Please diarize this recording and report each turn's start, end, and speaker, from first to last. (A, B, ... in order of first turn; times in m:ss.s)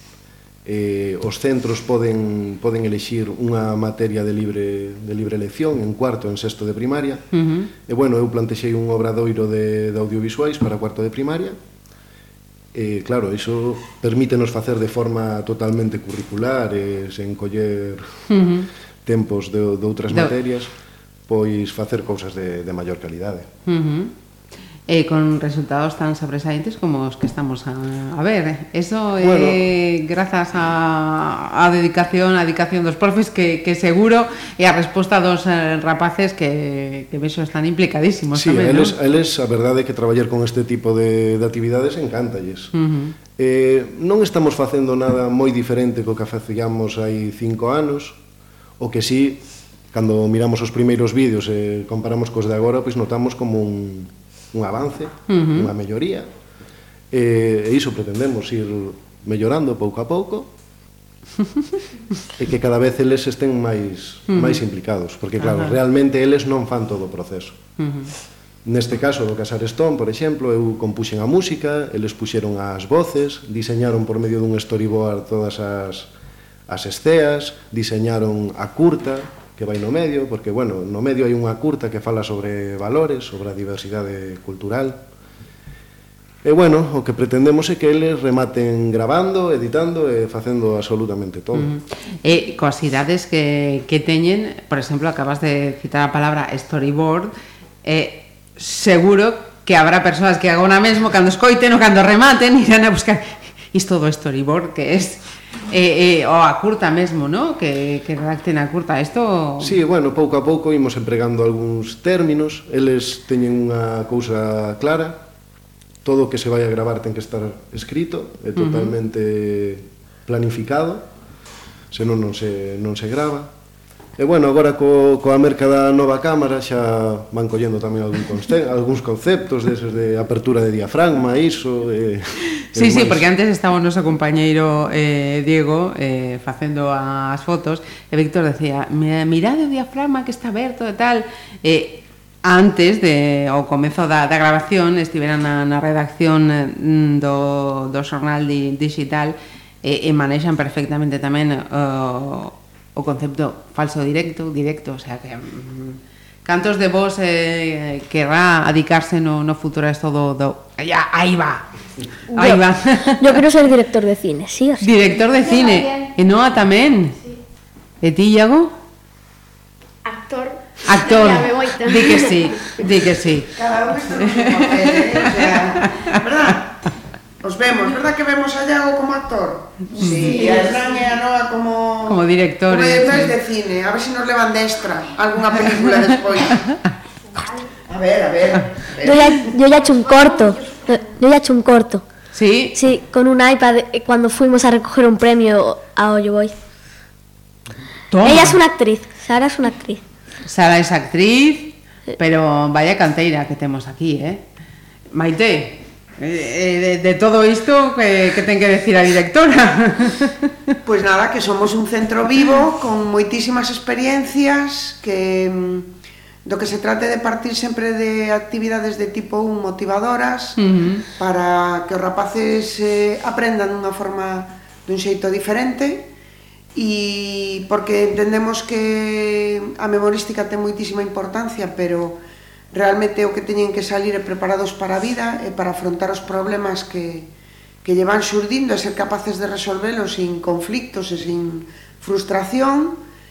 0:00.6-0:07.2 A
0:07.3-0:07.7 B
0:07.9-0:11.6 A
0:12.7-0:18.1 A
0:18.3-0:18.7 B
0:19.0-0:20.7 A
0:21.3-0:23.5 A
0:23.7-0:24.1 B
0:24.9-0:39.0 B
0:29.2-0:29.6 A
0:38.3-0:42.7 A
0:42.7-0:43.2 B
0:43.4-0:48.2 A
0:48.8-0:56.3 A
0:55.3-0:55.7 B
0:57.1-1:00.5 A
1:02.4-1:07.6 A
1:04.3-1:04.6 B
1:05.4-1:05.8 B
1:07.8-1:08.1 B
1:08.6-1:16.1 A
1:16.7-1:25.0 A
1:26.4-1:31.7 A
1:31.6-1:49.8 B
1:49.6-1:55.2 A
1:56.0-2:01.1 A
1:58.6-1:58.9 B
2:01.9-2:03.5 A
2:04.2-2:13.2 A
2:12.8-2:41.6 B
2:42.3-2:44.9 C
2:42.3-2:43.4 B
2:44.8-2:47.2 B
2:48.0-2:48.7 B
2:50.0-2:52.3 D
2:50.8-2:53.5 B
2:53.5-2:56.8 E
2:54.2-2:56.2 B
2:57.4-3:06.6 E
2:59.9-3:00.5 B
3:02.0-3:03.4 B
3:07.9-3:09.6 E
3:09.0-3:12.1 C
3:12.3-3:12.8 B
3:12.7-3:16.5 C
3:18.1-3:18.6 B
3:18.2-3:20.0 C
3:20.4-3:24.4 B
3:25.1-3:30.7 B
3:30.8-3:35.9 E
3:36.4-3:40.6 E
3:40.6-3:41.1 B
3:41.2-3:46.1 E
3:46.8-3:52.2 E
3:52.7-3:57.3 E
3:57.8-4:03.0 E